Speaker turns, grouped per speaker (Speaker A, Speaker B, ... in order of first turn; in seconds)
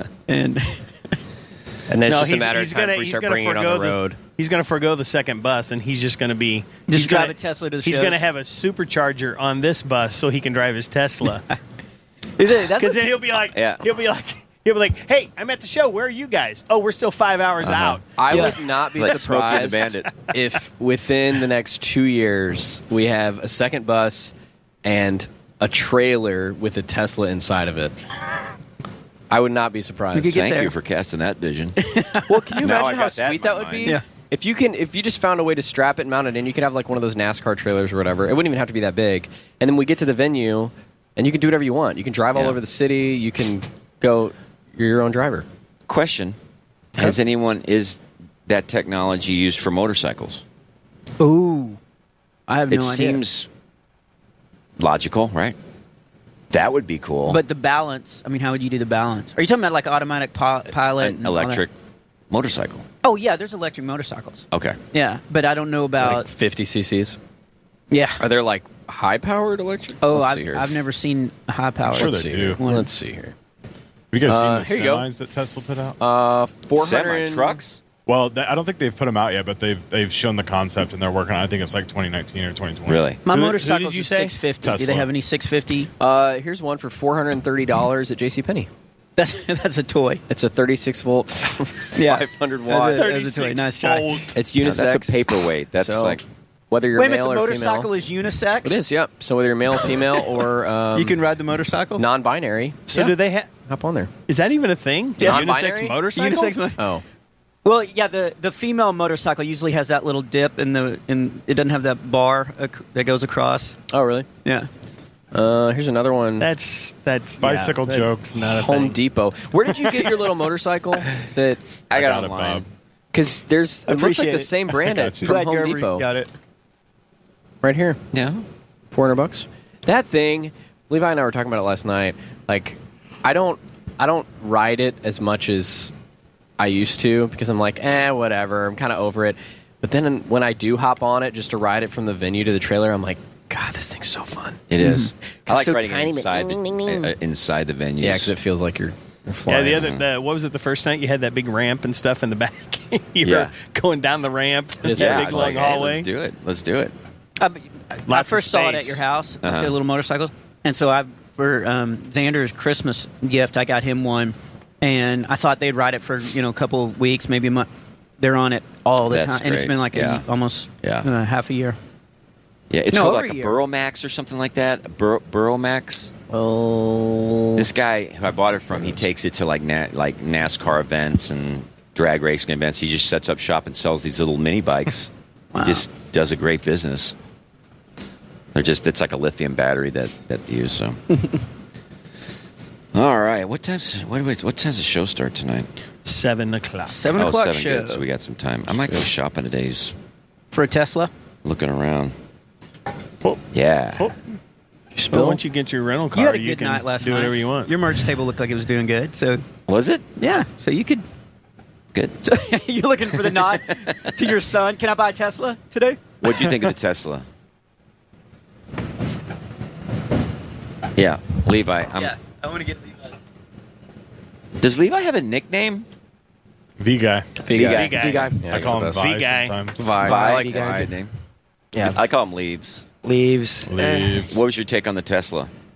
Speaker A: 0.3-0.9, 6.9-8.2, 12.4-13.1, 18.3-18.6, 30.1-30.7, 31.8-32.6, 51.2-51.8, 52.5-53.2, 57.3-61.6, 63.0-66.3, 67.9-68.2, 70.0-72.9, 83.2-85.9, 89.2-90.2, 92.0-94.3, 97.0-98.8, 100.9-102.0, 105.2-106.8, 107.7-113.8, 123.9-126.3, 144.8-145.1, 157.4-171.8, 172.9-173.6, 185.5-185.9, 196.9-198.0, 200.5-201.1, 206.1-209.4, 210.2-211.1, 212.2-216.7, 222.2-223.0
Speaker B: 1.9-4.2, 18.2-28.0, 29.3-30.4, 32.3-45.5, 66.0-67.2, 68.2-70.8, 71.9-73.3, 74.2-75.1, 76.0-77.6, 86.0-88.7, 90.3-93.1, 94.3-95.3, 95.8-97.9, 98.6-101.2, 102.0-103.1, 103.7-104.1, 105.2-107.0, 113.9-114.3, 115.3-116.5, 118.5-121.6, 123.1-126.1, 127.6-128.0, 128.9-135.9, 136.6-144.7, 145.5-147.0, 148.0-149.9, 154.8-155.6, 176.3-177.7, 204.9-205.4, 227.4-229.1, 229.8-230.9
Speaker C: 2.1-11.4, 12.8-18.1, 92.9-94.3, 102.9-103.5, 104.3-106.6, 116.4-119.0, 149.5-156.1, 158.1-159.0, 196.1-197.0, 205.1-207.8, 227.5-229.6
Speaker D: 13.5-13.8, 17.6-20.1, 30.3-31.8, 32.6-34.0, 42.3-42.6, 45.9-46.4, 47.0-50.4, 52.7-53.5, 54.8-55.6, 56.5-57.4, 61.0-61.7, 62.3-62.9, 64.5-64.8, 76.8-77.8, 82.9-83.2, 94.6-96.2, 121.9-122.7, 128.1-128.5, 144.7-148.3, 149.8-150.1, 153.2-153.5, 154.9-156.9, 159.4-159.8, 169.1-170.3, 170.8-171.1, 172.7-176.1, 177.6-185.1, 185.6-187.2, 188.6-191.0, 192.9-195.7, 197.1-200.0, 201.4-202.2, 203.5-204.1, 209.7-210.1, 213.3-214.2, 216.2-217.3, 221.0-222.2, 224.6-225.9, 227.5-228.2, 230.0-231.1, 231.8-232.8, 233.8-235.5
Speaker E: 71.9-72.6, 74.1-76.0, 78.1-85.1, 117.4-118.5, 121.9-122.7, 124.9-125.3, 226.8-227.4, 228.5-230.0, 233.7-234.4
Speaker F: 228.0-228.5, 230.0-230.9, 233.0-233.9